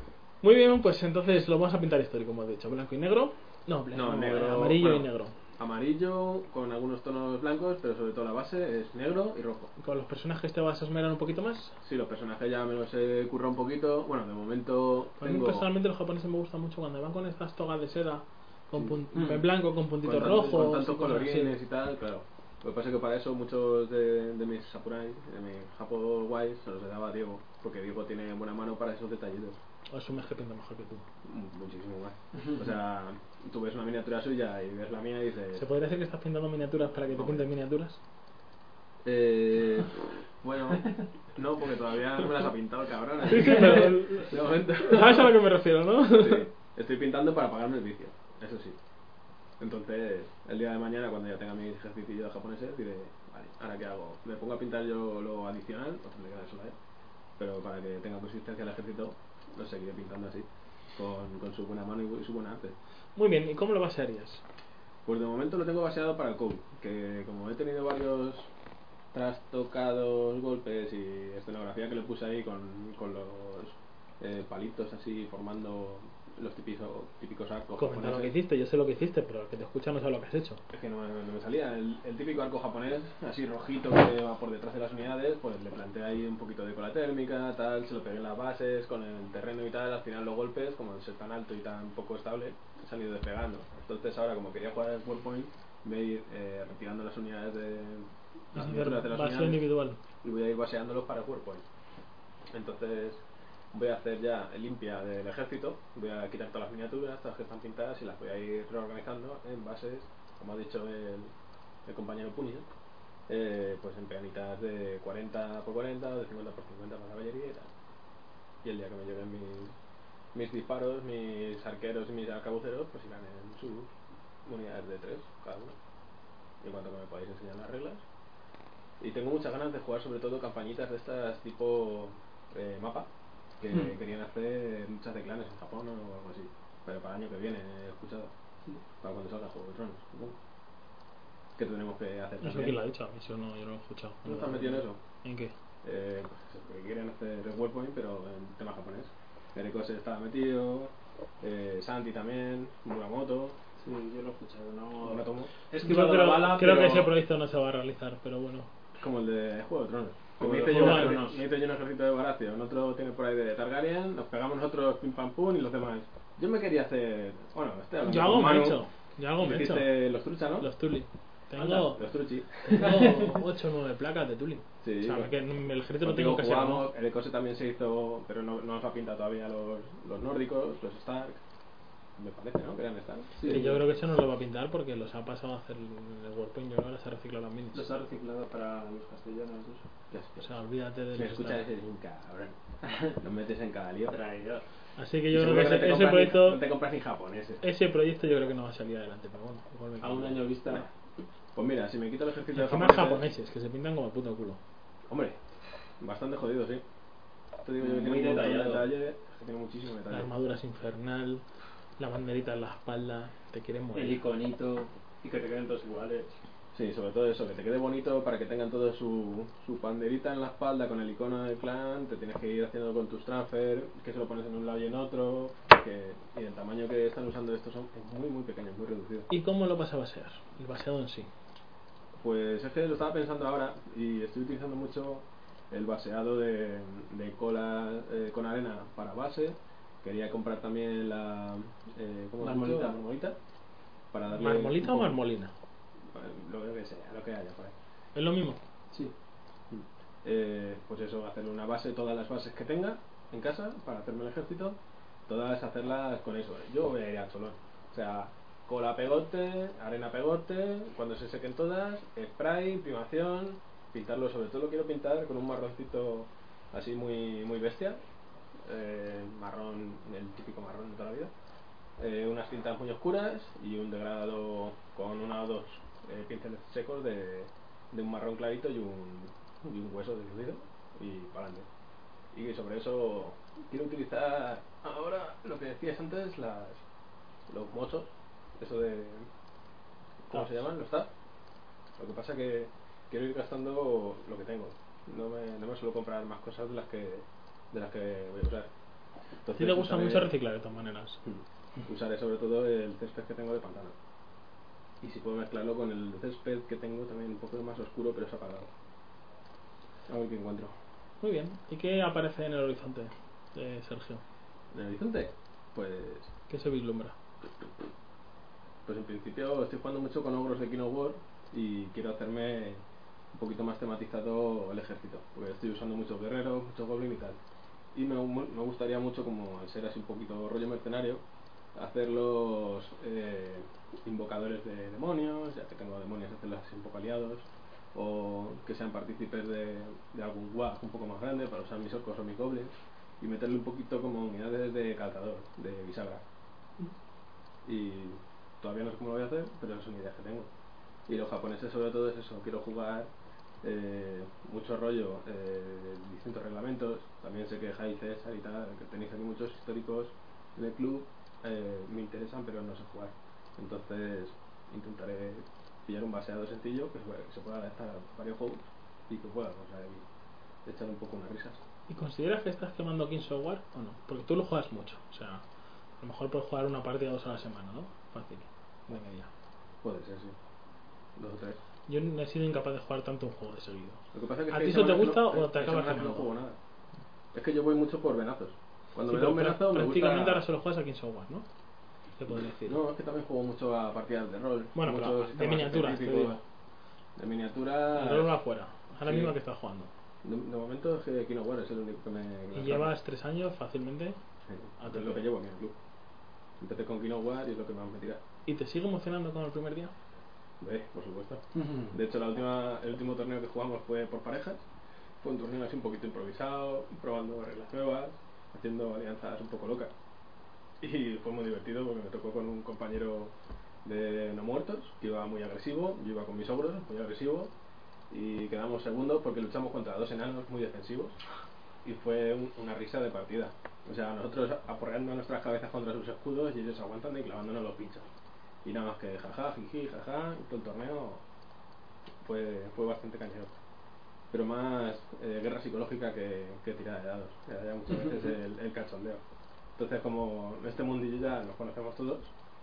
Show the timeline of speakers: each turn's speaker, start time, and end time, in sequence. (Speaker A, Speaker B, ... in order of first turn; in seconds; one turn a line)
Speaker A: 0.4-5.3
Speaker B: 3.9-9.7
Speaker A: 9.8-11.8
Speaker B: 11.8-15.7
Speaker A: 15.2-21.6
Speaker B: 18.7-19.3
Speaker C: 19.1-19.4
Speaker B: 20.0-29.6
Speaker A: 29.9-31.1
Speaker B: 31.2-35.7
Speaker A: 35.5-38.0
Speaker B: 37.1-37.5
Speaker B: 39.0-45.3
Speaker A: 43.3-46.5
Speaker B: 46.1-48.8
Speaker B: 49.6-56.8
Speaker B: 57.4-62.8
Speaker A: 63.2-64.4
Speaker B: 65.0-68.5
Speaker B: 69.1-78.3
Speaker A: 77.8-80.6
Speaker B: 80.7-99.7
Speaker A: 98.5-100.0
Speaker B: 100.2-101.6
Speaker B: 102.5-111.3
Speaker B: 111.8-112.7
Speaker B: 113.3-117.7
Speaker B: 118.6-119.8
Speaker B: 120.3-123.9
Speaker B: 124.5-125.8
Speaker B: 126.6-128.0
Speaker B: 129.0-133.1
Speaker B: 133.6-138.3
Speaker B: 139.0-140.4
Speaker B: 141.6-142.8
Speaker A: 142.4-145.5
Speaker B: 144.2-145.0
Speaker B: 145.8-153.6
Speaker C: 153.8-157.1
Speaker B: 155.0-155.5
Speaker A: 155.8-158.7
Speaker B: 159.0-168.8
Speaker C: 160.4-161.4
Speaker A: 160.7-161.3
Speaker A: 168.1-170.1
Speaker B: 169.4-170.7
Speaker A: 170.6-172.0
Speaker B: 171.6-173.2
Speaker A: 172.6-176.9
Speaker B: 174.8-175.3
Speaker B: 176.0-181.4
Speaker B: 182.2-184.0
Speaker C: 183.4-183.8
Speaker A: 183.5-187.9
Speaker C: 187.7-189.9
Speaker B: 190.1-190.4
Speaker A: 190.4-191.6
Speaker B: 191.1-194.2
Speaker C: 194.1-194.6
Speaker A: 195.0-196.6
Speaker B: 195.3-197.6
Speaker A: 197.6-200.5
Speaker C: 200.0-200.9
Speaker B: 201.6-203.2
Speaker A: 202.5-204.6
Speaker B: 205.1-205.4
Speaker B: 206.0-206.8
Speaker B: 207.6-210.3
Speaker C: 207.8-209.0
Speaker A: 210.1-211.4
Speaker A: 212.0-214.2
Speaker C: 213.9-216.4
Speaker B: 216.7-229.3
Speaker A: 229.3-231.3
Speaker B: 232.2-243.4
Speaker C: 242.4-243.0
Speaker B: 244.1-245.2
Speaker A: 244.3-245.5
Speaker B: 246.1-247.7
Speaker A: 248.2-248.6
Speaker B: 249.7-268.0
Speaker B: 268.6-271.3
Speaker B: 272.0-281.7
Speaker B: 282.3-286.8
Speaker B: 287.5-289.3
Speaker B: 290.3-291.1
Speaker A: 290.3-290.7
Speaker B: 292.0-298.7
Speaker B: 299.4-300.3
Speaker A: 299.5-301.2
Speaker B: 301.2-303.9
Speaker B: 305.0-308.7
Speaker B: 310.1-310.8
Speaker A: 311.2-314.2
Speaker B: 314.7-316.3
Speaker A: 316.5-317.1
Speaker B: 318.9-327.4
Speaker B: 327.9-331.2
Speaker B: 331.8-346.2
Speaker B: 347.6-350.5
Speaker B: 351.1-353.1
Speaker B: 353.6-370.1
Speaker B: 370.6-371.6
Speaker A: 371.9-375.4
Speaker A: 376.0-379.3
Speaker B: 379.8-380.4
Speaker B: 381.2-381.6
Speaker A: 381.9-386.3
Speaker B: 384.1-386.6
Speaker B: 387.3-390.4
Speaker A: 389.1-391.5
Speaker A: 392.2-392.8
Speaker B: 392.3-396.4
Speaker A: 394.8-396.4
Speaker B: 397.2-398.4
Speaker A: 397.9-399.9
Speaker B: 399.0-399.3
Speaker B: 400.2-402.9
Speaker A: 402.5-404.2
Speaker B: 404.5-405.8
Speaker A: 404.8-405.2
Speaker B: 406.6-408.2
Speaker A: 408.5-409.9
Speaker B: 410.6-414.6
Speaker C: 411.6-411.9
Speaker B: 415.2-419.9
Speaker B: 420.8-427.5
Speaker B: 428.1-431.2
Speaker B: 431.8-438.1
Speaker B: 438.6-441.2
Speaker B: 442.2-443.6
Speaker B: 444.3-449.2
Speaker B: 449.8-452.3